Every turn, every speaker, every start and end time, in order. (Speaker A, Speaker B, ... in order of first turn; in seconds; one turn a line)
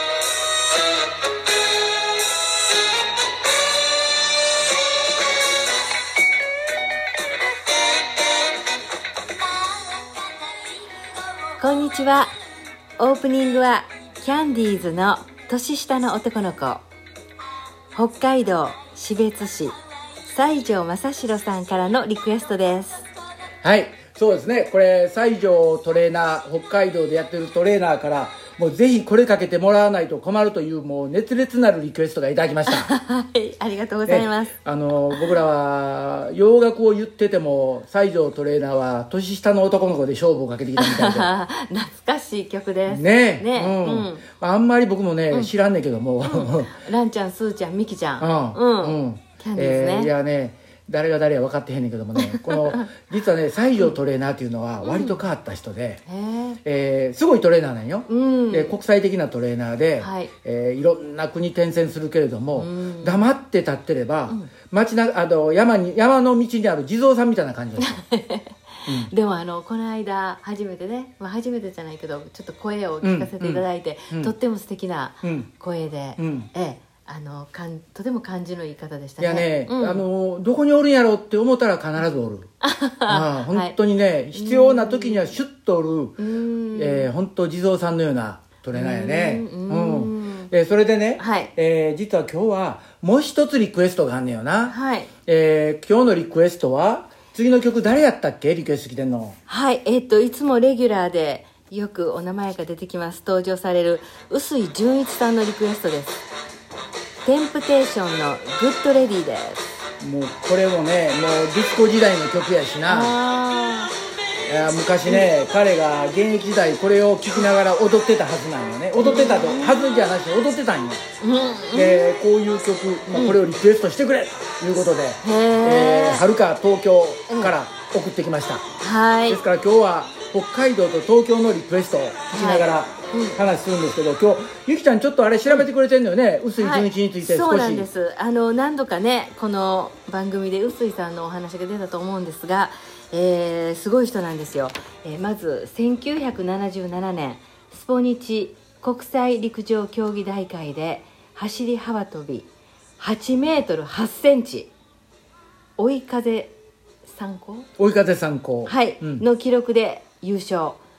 Speaker A: 11.6-12.3
Speaker A: 13.0-16.8
Speaker A: 17.9-23.0
Speaker B: 23.6-32.9
Speaker A: 32.7-34.5
Speaker B: 34.0-41.3
Speaker A: 40.8-44.2
Speaker B: 42.9-46.8
Speaker A: 46.2-50.1
Speaker B: 48.2-56.0
Speaker A: 52.2-52.9
Speaker A: 54.8-55.2
Speaker A: 56.0-56.6
Speaker B: 56.6-68.0
Speaker A: 58.1-58.8
Speaker A: 60.0-60.3
Speaker A: 62.5-63.3
Speaker A: 67.8-80.0
Speaker B: 68.8-69.1
Speaker B: 73.0-74.3
Speaker B: 75.2-75.5
Speaker B: 76.2-76.5
Speaker B: 79.2-82.5
Speaker A: 82.6-83.8
Speaker B: 83.1-86.2
Speaker A: 84.3-85.3
Speaker A: 86.2-87.1
Speaker B: 86.7-99.4
Speaker A: 88.7-90.5
Speaker A: 91.2-91.5
Speaker A: 94.7-95.1
Speaker A: 99.5-106.2
Speaker A: 107.2-109.7
Speaker B: 110.0-113.1
Speaker A: 112.8-114.0
Speaker B: 114.4-121.1
Speaker A: 119.0-120.0
Speaker A: 121.2-122.2
Speaker B: 121.7-128.7
Speaker A: 123.1-123.4
Speaker A: 125.2-126.2
Speaker A: 127.3-127.5
Speaker A: 128.8-129.4
Speaker B: 129.3-137.9
Speaker A: 132.3-133.4
Speaker A: 136.6-152.5
Speaker A: 153.0-154.7
Speaker A: 155.8-156.5
Speaker A: 157.1-157.7
Speaker B: 157.8-159.2
Speaker A: 158.7-160.8